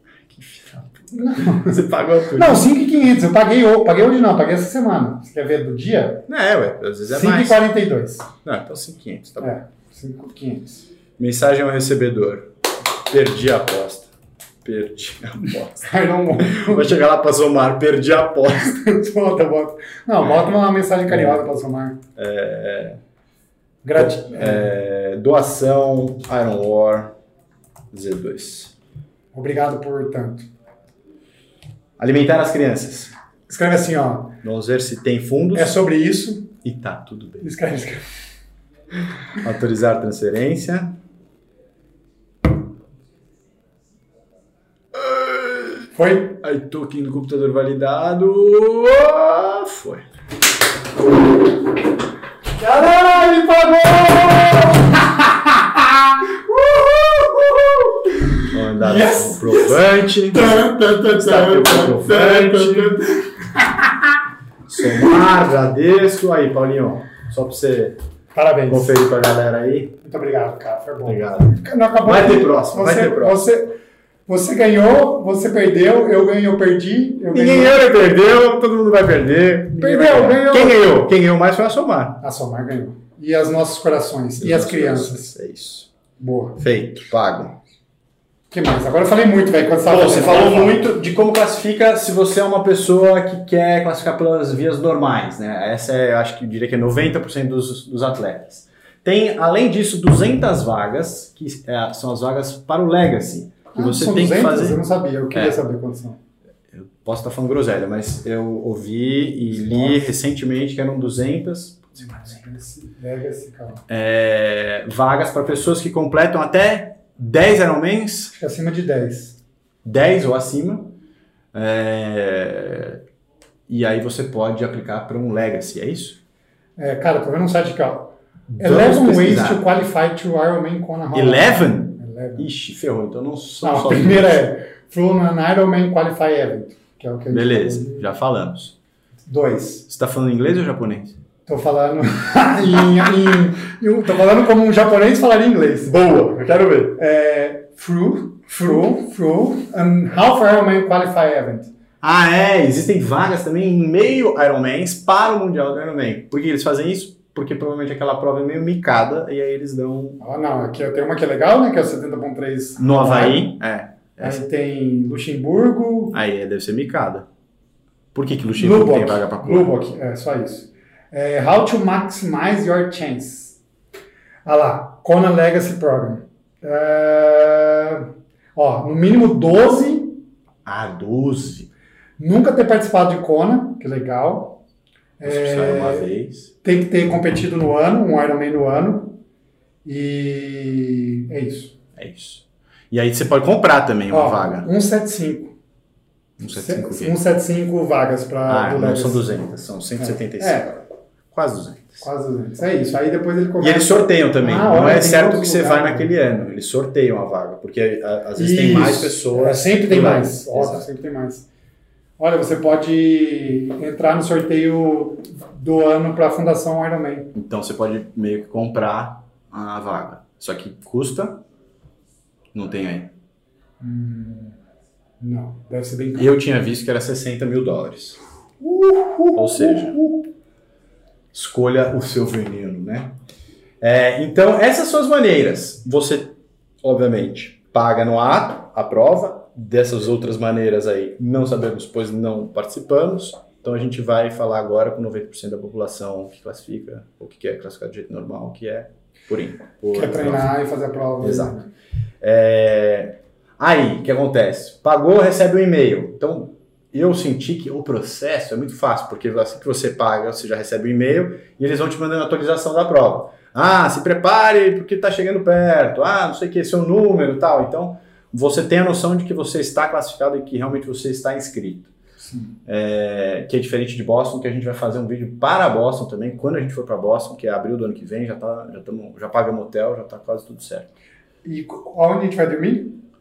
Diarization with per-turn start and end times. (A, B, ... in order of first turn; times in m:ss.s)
0:00.3-0:02.7 A
0:01.1-0:06.3 B
0:06.3-0:07.7 A
0:07.1-0:08.3 B
0:08.4-0:09.5 A
0:09.4-0:10.8 B
0:11.2-0:12.5 A
0:13.1-0:14.1 A
0:14.6-0:18.8 A
0:15.8-0:17.0 B
0:18.6-0:22.0 B
0:21.1-0:21.4 A
0:22.2-0:23.0 A
0:23.8-0:24.7 B
0:24.0-0:27.1 A
0:27.9-0:28.7 A
0:29.3-0:30.5 B
0:32.0-0:33.1 A
0:33.5-0:34.4 B
0:34.4-0:35.8 A
0:35.5-0:36.6 B
0:36.6-0:37.4 A
0:37.4-0:38.0 B
0:39.4-0:41.0 A
0:45.0-0:45.9 A
0:46.0-0:46.4 B
0:46.4-0:50.1 A
0:52.6-1:04.2 B
0:58.5-1:03.0 A
1:04.7-1:08.0 A
1:08.3-1:09.0 B
1:08.7-1:10.0 A
1:10.0-1:13.7 B
1:11.0-1:13.5 A
1:14.3-1:17.8 B
1:17.3-1:22.2 A
1:19.8-1:21.0 B
1:22.2-1:25.3 B
1:24.4-1:25.9 A
1:26.2-1:26.6 B
1:26.6-1:27.6 A
1:28.5-1:30.8 B
1:29.8-1:44.8 A
1:43.8-1:46.2 B
1:46.7-1:52.2 A
1:49.5-1:50.1 B
1:52.0-1:53.8 B
1:53.9-1:58.3 A
1:58.3-1:59.4 B
1:59.8-2:01.0 A
2:01.5-2:03.0 A
2:03.7-2:06.2 A
2:06.8-2:12.5 B
2:08.5-2:09.6 A
2:11.1-2:14.5 A
2:13.6-2:18.0 B
2:17.3-2:18.7 A
2:19.3-2:19.9 B
2:19.9-2:21.2 A
2:21.5-2:25.9 B
2:25.8-2:27.0 A
2:27.0-2:31.7 B
2:32.0-2:40.2 A
2:40.2-2:43.5 B
2:42.8-2:44.4 A
2:44.2-2:46.2 B
2:46.1-2:47.3 A
2:48.1-2:49.7 A
2:48.6-2:53.6 B
2:54.4-3:00.2 B
3:00.6-3:01.7 A
3:02.2-3:04.6 B
3:05.2-3:06.1 B
3:05.2-3:06.5 A
3:06.6-3:09.2 B
3:09.8-3:11.8 B
3:12.0-3:14.7 A
3:14.1-3:15.5 B
3:16.4-3:17.2 A
3:16.5-3:19.5 B
3:18.5-3:22.0 A
3:20.0-3:20.7 B
3:22.0-3:26.1 B
3:23.6-3:30.9 A
3:28.4-3:31.5 B
3:32.2-3:37.3 B
3:37.3-3:41.4 A
3:42.5-3:43.1 A
3:43.8-3:44.6 B
3:45.2-3:46.3 B
3:46.2-3:48.2 A
3:48.6-3:50.2 B
3:49.4-3:50.0 A
3:51.3-3:53.2 A
3:53.8-4:10.5 A
4:09.9-4:11.7 B
4:11.2-4:11.6 A
4:12.2-4:31.9 A
4:32.3-4:32.5 B
4:32.7-4:40.9 A
4:41.4-4:43.0 B